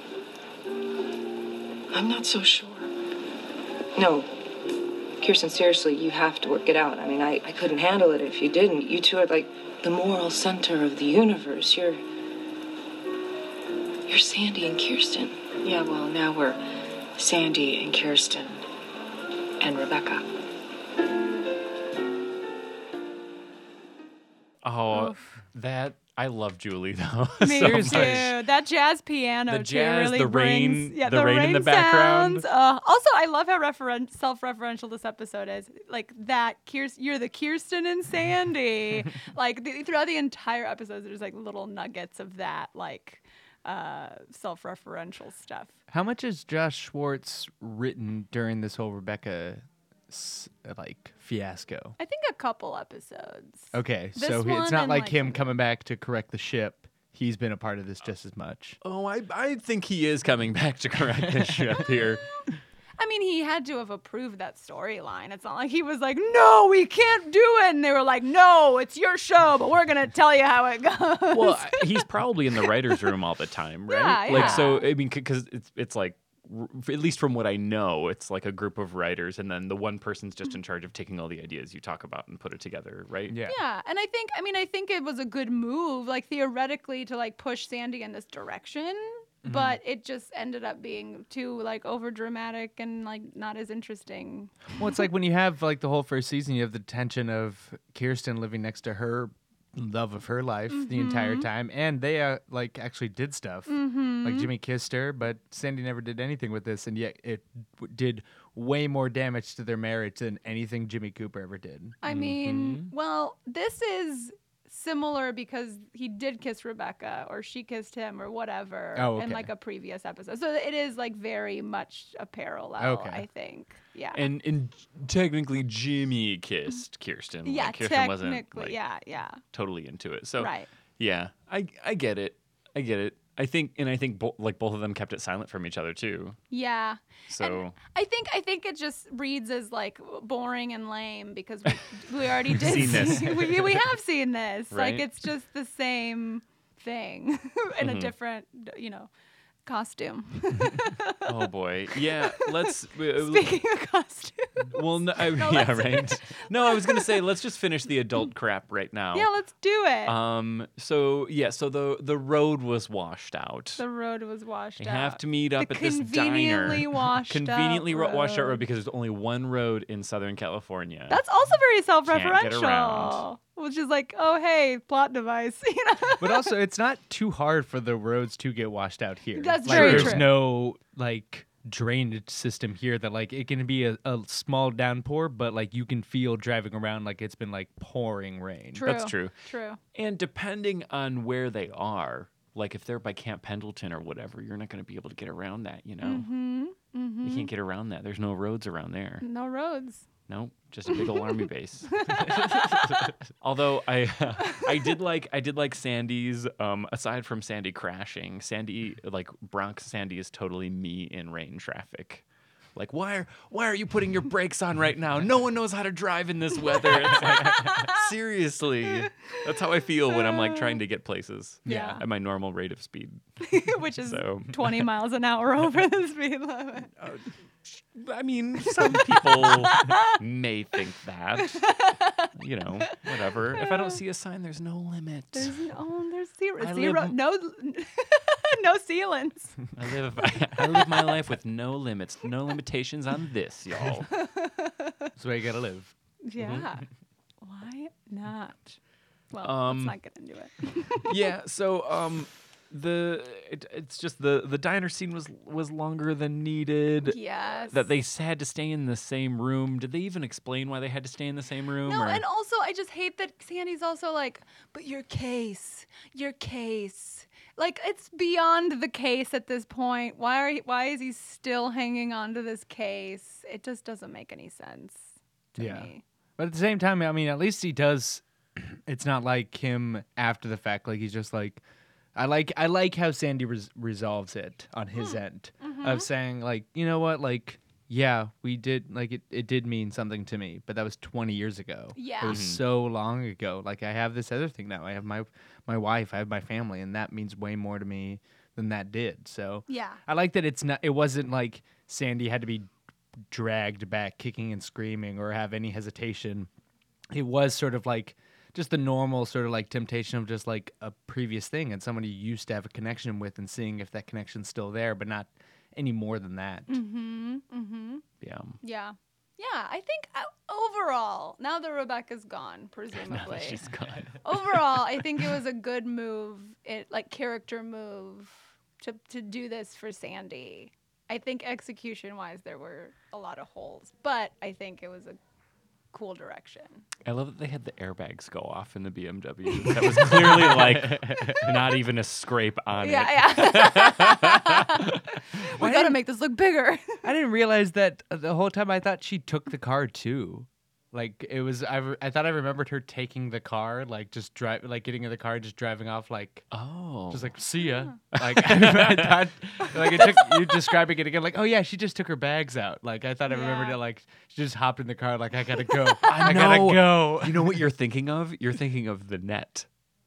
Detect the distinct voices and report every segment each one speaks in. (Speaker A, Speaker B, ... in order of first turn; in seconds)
Speaker A: 1.9-2.9, 15.6-16.6, 17.1-18.6, 19.6-20.3
Speaker B: 3.9-4.3, 5.2-12.0, 14.1-15.6
Speaker C: 24.6-28.3, 29.5-32.5, 58.8-62.2, 71.3-83.4, 112.0-112.9, 124.1-128.8, 129.4-136.4, 137.3-137.8, 142.4-143.9, 144.7-145.1, 147.8-148.1, 151.2-153.6, 154.7-159.3, 160.0-163.8, 164.8-171.2, 172.1-173.2, 179.7-180.3, 188.8-189.3, 189.9-196.3, 197.2-199.2, 200.3-212.2, 212.8-223.2, 224.0-224.9, 227.0-231.7, 232.3-235.6, 236.6-237.2, 239.8-244.1, 246.4-246.7, 249.4-250.0, 251.0-257.2, 257.7-262.2, 292.2-292.6, 318.2-318.6, 323.1-325.2, 337.1-345.0, 356.5-357.3, 358.1-360.2, 366.1-369.6
Speaker D: 24.9-25.3, 27.4-45.7, 52.0-55.5, 63.0-72.0, 72.6-73.0, 73.9-74.8, 83.5-94.7, 100.7-101.5, 103.7-104.5, 112.0-124.2, 127.4-129.4, 130.4-130.7, 136.5-149.1, 149.6-151.3, 152.2-152.7, 153.2-157.2, 159.1-160.1, 163.8-168.6, 171.1-176.5, 179.4-180.3, 188.7-189.8, 196.0-197.5, 199.2-200.0, 200.9-201.3, 201.9-203.1, 204.5-204.8, 216.7-218.0, 220.1-220.8, 221.7-222.0, 223.4-226.9, 228.7-230.2, 231.4-232.3, 233.6-233.9, 235.3-239.6, 240.7-241.1, 244.1-245.1, 246.2-246.8, 247.4-248.8, 249.3-251.2, 257.0-257.8, 261.9-276.0, 284.9-286.1, 291.9-292.4, 299.7-300.0, 316.7-318.0, 318.6-323.6, 324.2-335.2, 335.9-336.8, 339.6-340.6, 342.8-347.0, 363.3-363.8
Speaker E: 27.6-28.3, 45.9-52.0, 53.7-58.8, 74.3-74.6, 83.3-83.6, 89.4-89.8, 94.8-112.0, 119.0-119.5, 122.8-123.2, 176.2-188.8, 245.2-245.9, 275.6-281.6, 282.1-302.7, 303.3-306.5, 307.1-316.8, 340.5-341.1, 345.6-346.0, 347.0-356.4, 357.1-367.6